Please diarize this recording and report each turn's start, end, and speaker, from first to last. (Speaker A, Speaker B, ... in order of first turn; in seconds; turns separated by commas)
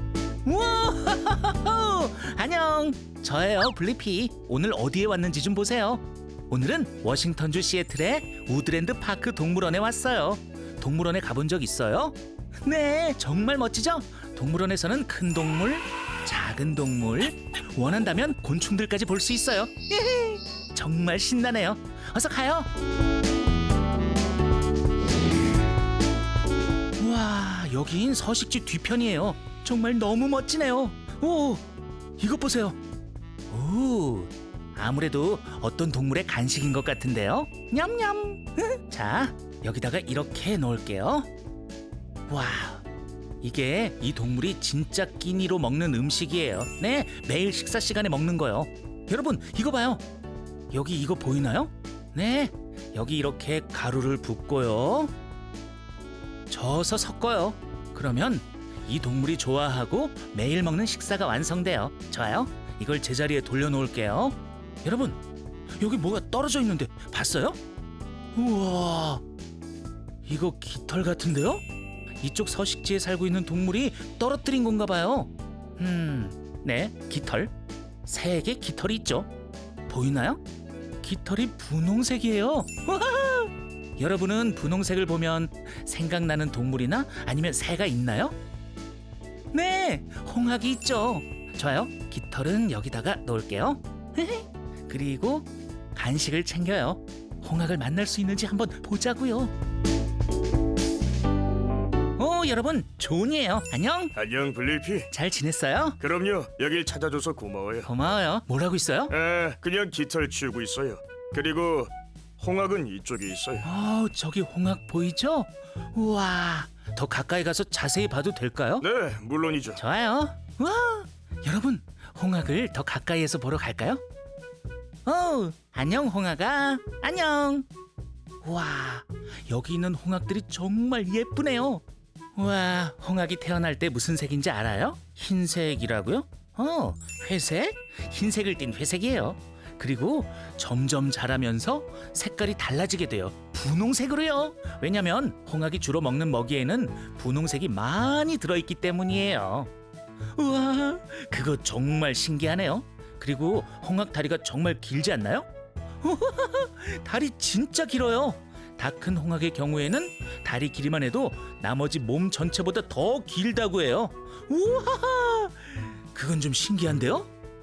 Speaker A: 0.4-22.7, Speaker A: 27.0-31.6, Speaker A: 32.2-32.8, Speaker A: 33.5-41.3, Speaker A: 42.3-42.8, Speaker A: 43.4-50.0, Speaker A: 50.7-55.1, Speaker A: 56.5-65.2, Speaker A: 65.8-67.6, Speaker A: 68.3-69.2, Speaker A: 70.2-71.6, Speaker A: 72.2-77.5, Speaker A: 78.0-79.3, Speaker A: 79.9-80.4, Speaker A: 81.0-88.4, Speaker A: 89.5-99.5, Speaker A: 102.2-104.1, Speaker B: 104.2-105.1, Speaker A: 105.1-106.0, Speaker B: 106.0-107.9, Speaker A: 107.8-109.1, Speaker B: 109.1-113.7, Speaker A: 113.6-118.9, Speaker B: 118.8-119.8, Speaker A: 119.8-124.0, Speaker A: 125.0-127.7, Speaker A: 128.4-131.8, Speaker A: 132.3-149.7, Speaker A: 150.3-155.5, Speaker A: 156.0-167.3